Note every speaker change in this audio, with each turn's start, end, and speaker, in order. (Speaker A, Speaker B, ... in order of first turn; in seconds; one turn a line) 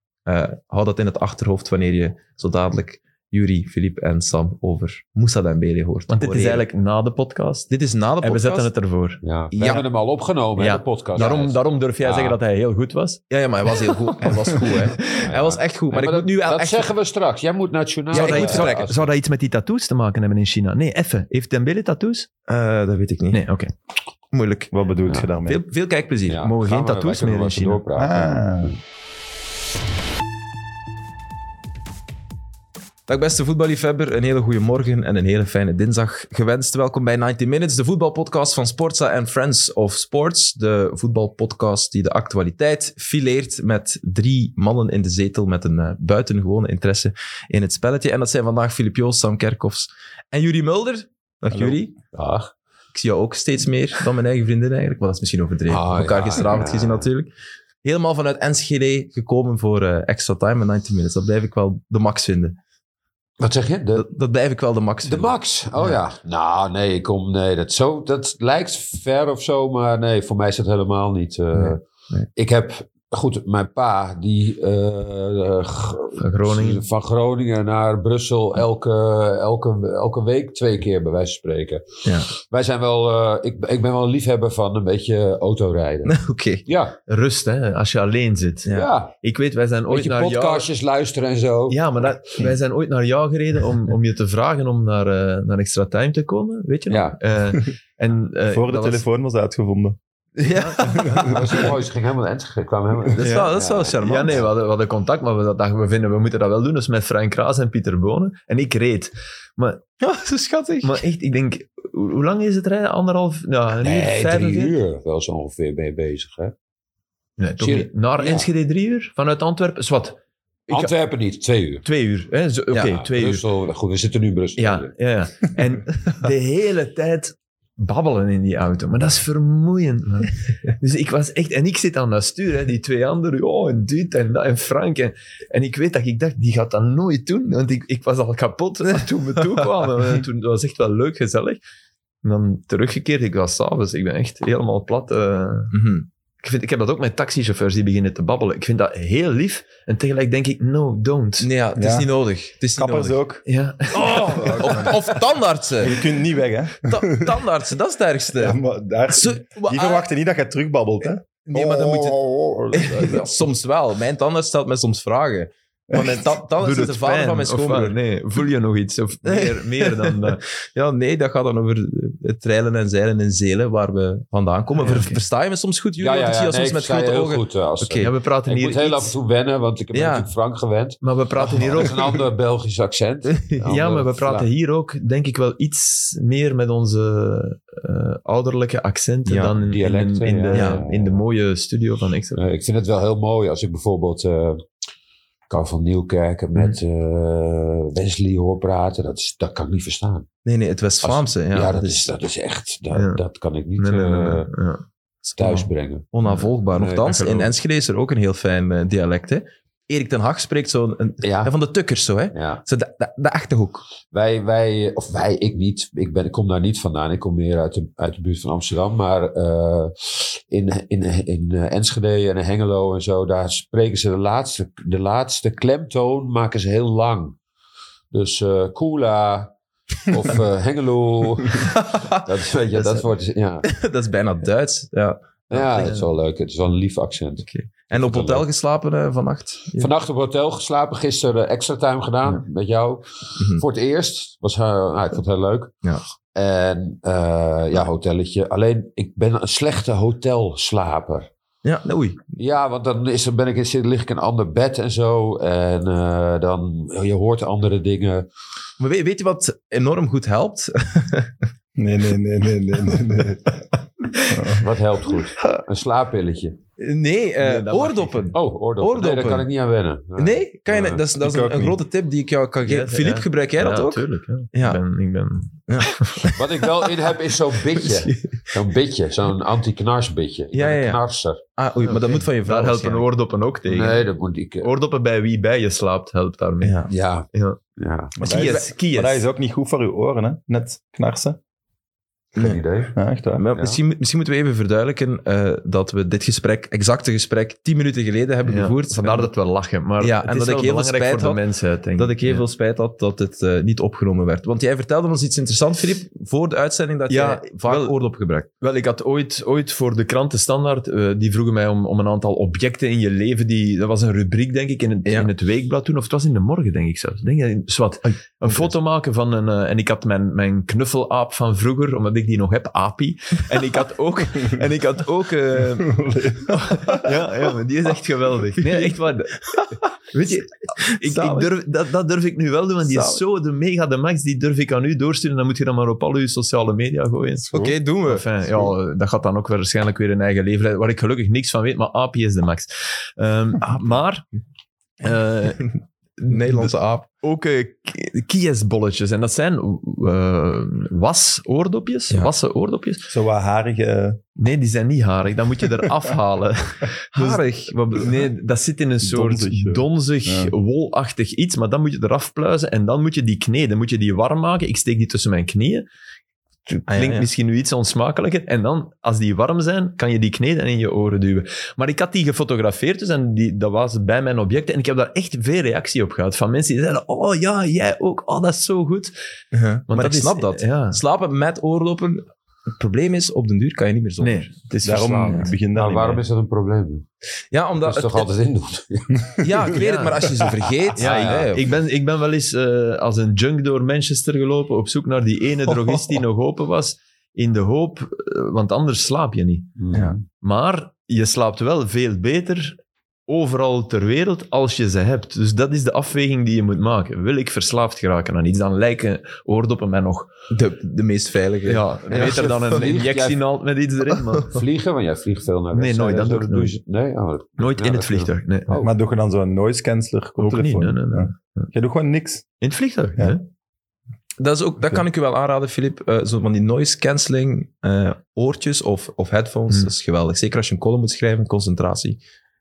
Speaker A: 0.2-6.6
Speaker B: 6.1-7.7
Speaker A: 7.7-8.7
Speaker B: 8.2-9.2
Speaker C: 9.2-12.4
Speaker A: 9.5-9.8
Speaker B: 10.6-13.2
Speaker A: 13.3-16.9
Speaker B: 14.5-15.2
Speaker C: 15.1-19.1
Speaker A: 18.1-18.9
Speaker B: 18.1-22.3
Speaker A: 22.5-23.4
Speaker B: 23.3-23.7
Speaker A: 24.3-24.7
Speaker D: 24.7-25.6
Speaker A: 25.4-26.4
Speaker C: 26.3-28.8
Speaker B: 26.3-27.8
Speaker D: 27.9-28.8
Speaker A: 33.1-51.9
Speaker D: 51.5-51.8
Speaker C: 52.1-52.5
Speaker A: 52.9-57.3
Speaker C: 55.7-57.0
Speaker A: 57.8-62.6
Speaker C: 63.4-64.1
Speaker A: 64.0-66.0
Speaker C: 65.0-71.8
Speaker A: 71.5-72.3
Speaker C: 72.3-87.0
Speaker B: 76.2-76.8
Speaker A: 82.0-82.3
Speaker A: 86.0-86.6
Speaker B: 87.1-90.7
Speaker C: 88.7-89.1
Speaker C: 89.9-92.1
Speaker B: 91.7-99.0
Speaker C: 96.9-97.2
Speaker D: 98.5-100.0
Speaker A: 100.4-101.7
Speaker B: 100.4-101.7
Speaker D: 100.8-101.5
Speaker C: 101.2-104.4
Speaker A: 103.2-104.5
Speaker B: 104.0-109.8
Speaker A: 110.0-111.0
Speaker B: 110.8-114.7
Speaker C: 113.8-116.5
Speaker B: 117.4-120.2
Speaker C: 117.6-118.5
Speaker C: 120.7-121.8
Speaker B: 121.8-123.4
Speaker C: 122.9-124.9
Speaker B: 124.6-141.6
Speaker B: 142.2-145.7
Speaker A: 145.7-146.1
Speaker B: 146.4-151.5
Speaker A: 151.4-153.2
Speaker D: 151.8-152.1
Speaker D: 152.8-153.4
Speaker B: 153.4-154.8
Speaker D: 153.9-155.1
Speaker A: 154.4-155.9
Speaker D: 155.8-157.4
Speaker A: 156.8-158.6
Speaker D: 158.3-163.5
Speaker A: 159.1-160.1
Speaker A: 161.4-162.2
Speaker A: 162.7-167.9
Speaker D: 165.9-166.2
Speaker B: 166.6-170.4
Speaker A: 169.2-178.1
Speaker B: 174.8-175.2
Speaker C: 176.0-184.5
Speaker B: 178.0-179.1
Speaker A: 179.9-180.3
Speaker B: 181.0-182.1
Speaker A: 183.3-183.6
Speaker B: 183.6-192.4
Speaker A: 189.2-189.6
Speaker C: 189.6-191.2
Speaker A: 190.5-190.8
Speaker C: 192.3-194.7
Speaker C: 195.5-200.3
Speaker A: 200.4-202.1
Speaker C: 201.0-204.5
Speaker B: 202.9-203.2
Speaker B: 203.8-204.8
Speaker C: 205.4-206.1
Speaker B: 205.4-205.7
Speaker A: 206.1-213.8
Speaker C: 206.7-207.3
Speaker B: 207.1-207.4
Speaker C: 211.2-211.5
Speaker C: 212.3-212.6
Speaker C: 214.1-227.4
Speaker C: 228.1-229.5
Speaker C: 230.0-233.7
Speaker A: 231.6-232.2
Speaker A: 232.8-233.0
Speaker A: 233.6-236.0
Speaker C: 235.5-238.4
Speaker B: 235.7-236.1
Speaker A: 237.4-239.9
Speaker C: 239.8-251.3
Speaker A: 243.4-243.6
Speaker A: 251.6-252.2
Speaker C: 252.4-258.2
Speaker A: 258.8-261.3
Speaker D: 261.8-263.6
Speaker B: 264.1-264.4
Speaker D: 264.3-264.6
Speaker C: 264.5-266.6
Speaker A: 266.8-269.5
Speaker B: 267.4-268.3
Speaker C: 268.3-270.9
Speaker A: 270.2-274.8
Speaker D: 271.0-271.8
Speaker B: 272.6-276.3
Speaker A: 275.7-276.4
Speaker C: 276.3-281.4
Speaker A: 277.8-278.4
Speaker A: 280.5-281.0
Speaker A: 281.6-283.1
Speaker B: 281.8-284.1
Speaker C: 283.6-284.7
Speaker B: 284.6-287.6
Speaker A: 286.6-286.9
Speaker C: 286.9-288.1
Speaker D: 288.1-291.4
Speaker B: 288.2-289.2
Speaker A: 288.3-288.6
Speaker C: 292.4-293.0
Speaker D: 292.9-293.4
Speaker A: 293.4-299.3
Speaker C: 293.5-293.8
Speaker B: 298.4-302.4
Speaker A: 300.0-301.4
Speaker A: 301.9-308.5
Speaker B: 307.1-307.9
Speaker B: 308.6-326.0
Speaker A: 318.4-318.7
Speaker D: 325.8-327.2
Speaker B: 326.5-344.3
Speaker A: 330.9-331.5
Speaker A: 332.9-333.2
Speaker A: 337.5-338.7
Speaker B: 345.0-345.7
Speaker B: 346.2-353.1
Speaker A: 346.2-347.1
Speaker D: 353.1-354.2
Speaker B: 354.4-365.8
Speaker A: 357.1-358.2
Speaker D: 359.0-360.5
Speaker B: 366.7-379.1
Speaker A: 366.9-367.3
Speaker A: 379.5-384.5
Speaker B: 379.9-381.0
Speaker B: 384.2-385.5
Speaker D: 384.8-386.2
Speaker C: 385.3-387.1
Speaker A: 387.5-388.3
Speaker C: 387.8-389.2
Speaker D: 389.2-389.7
Speaker A: 389.4-391.7
Speaker B: 389.7-390.2
Speaker C: 390.9-391.6
Speaker B: 391.0-410.3
Speaker D: 395.9-396.2
Speaker C: 399.8-400.2
Speaker A: 399.9-400.2
Speaker A: 410.5-412.5
Speaker B: 411.7-414.6
Speaker C: 412.1-413.4
Speaker C: 414.4-418.9
Speaker B: 415.7-416.8
Speaker B: 417.6-418.8
Speaker D: 418.8-422.4
Speaker B: 420.4-421.7
Speaker B: 422.6-423.4
Speaker A: 424.4-432.2